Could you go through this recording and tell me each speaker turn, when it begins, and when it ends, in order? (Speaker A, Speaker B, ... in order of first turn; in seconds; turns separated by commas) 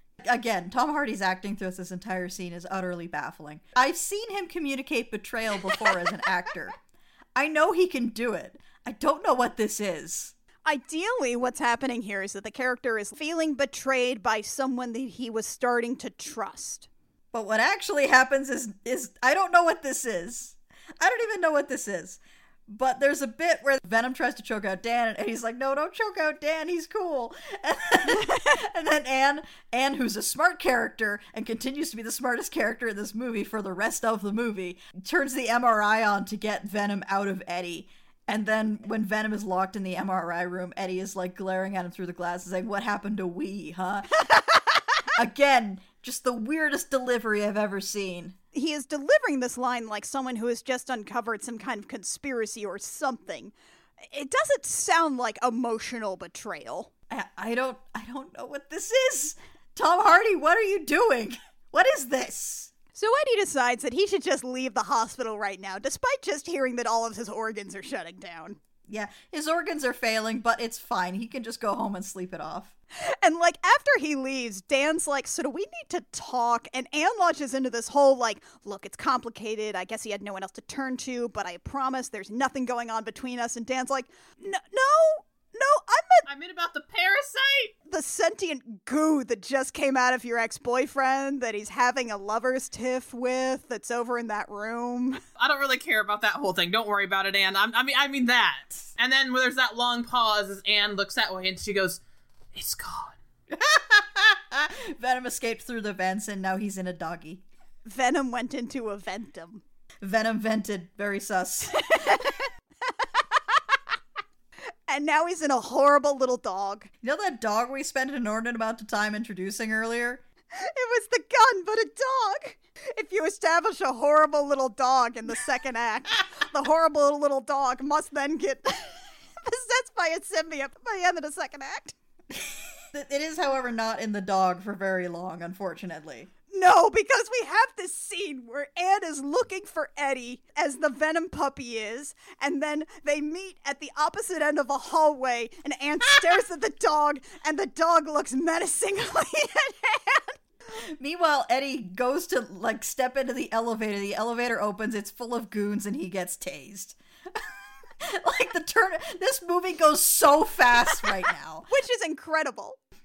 Speaker A: 0.2-6.8, Speaker A: 7.4-10.3, Speaker B: 10.7-16.9, Speaker A: 17.3-44.2, Speaker A: 45.1-48.4, Speaker B: 48.5-56.9, Speaker A: 57.1-62.7, Speaker B: 63.0-68.6, Speaker A: 68.9-72.7, Speaker B: 73.0-86.3, Speaker C: 86.3-87.7, Speaker B: 87.8-95.2, Speaker C: 95.4-102.0, Speaker C: 102.5-103.2, Speaker A: 103.5-107.4, Speaker B: 107.8-109.6, Speaker A: 110.0-112.3, Speaker B: 111.9-112.3, Speaker B: 114.9-116.9, Speaker A: 117.0-120.2, Speaker B: 120.5-131.9, Speaker A: 132.3-136.3, Speaker B: 136.5-150.4, Speaker A: 150.7-161.7, Speaker B: 161.7-162.8